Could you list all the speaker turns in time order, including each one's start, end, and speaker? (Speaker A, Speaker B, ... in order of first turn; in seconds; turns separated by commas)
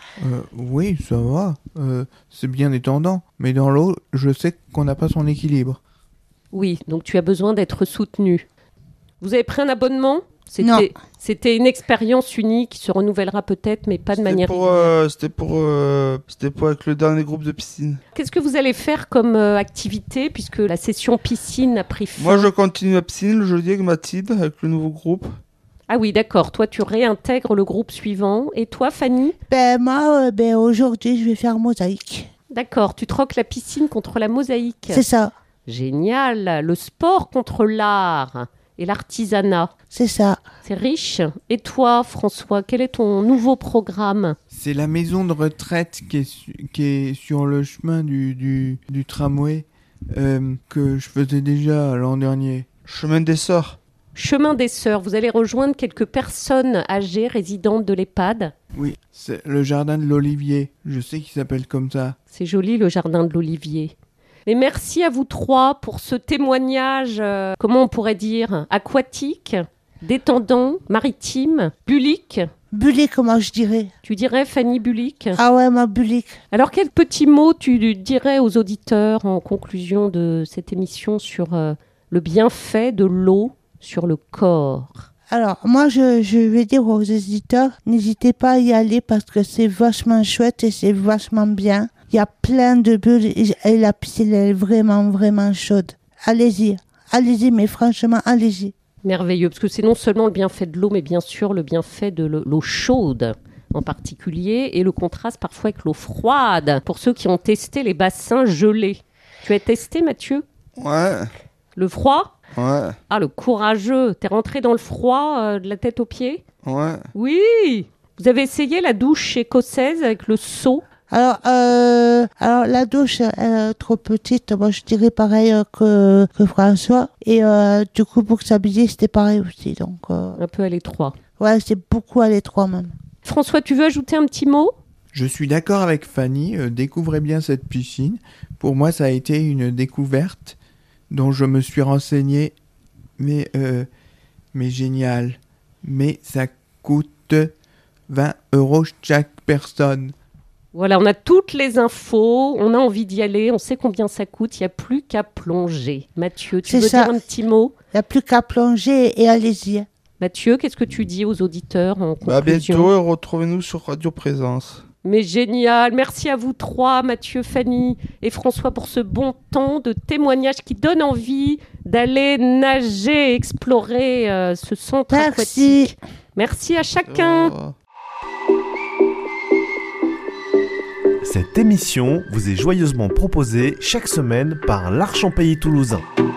Speaker A: 0.2-5.8, Speaker B: 6.5-8.5, Speaker B: 9.2-14.9, Speaker C: 10.6-10.9, Speaker D: 14.2-18.0, Speaker B: 18.1-22.5, Speaker D: 22.2-25.3, Speaker B: 25.9-29.4, Speaker C: 29.5-32.3, Speaker B: 32.5-35.0, Speaker C: 34.9-35.3, Speaker B: 35.7-39.7, Speaker C: 39.9-40.4, Speaker B: 40.6-44.4, Speaker A: 44.5-52.7, Speaker D: 52.9-53.8, Speaker B: 54.1-58.5, Speaker A: 58.8-62.1, Speaker B: 62.3-63.9, Speaker B: 64.5-72.5, Speaker C: 72.7-73.9, Speaker B: 74.0-75.4, Speaker C: 75.3-76.4, Speaker B: 76.5-85.1, Speaker C: 85.3-98.7, Speaker B: 99.0-110.4, Speaker D: 110.8-111.3, Speaker B: 111.8-112.3, Speaker D: 112.5-113.0, Speaker B: 113.1-116.4, Speaker D: 116.6-117.1, Speaker B: 117.1-120.8, Speaker C: 121.1-130.4, Speaker B: 130.4-131.2, Speaker C: 131.4-132.9, Speaker B: 133.2-134.7, Speaker A: 135.1-140.6, Speaker A: 141.1-142.6, Speaker A: 143.2-143.9, Speaker A: 144.5-147.5, Speaker A: 148.1-150.1, Speaker B: 150.7-157.7, Speaker C: 156.6-157.2, Speaker C: 157.9-159.9, Speaker B: 160.2-162.9, Speaker D: 162.2-164.8, Speaker B: 165.0-177.5, Speaker C: 175.1-176.0, Speaker D: 177.1-177.8, Speaker E: 181.2-186.0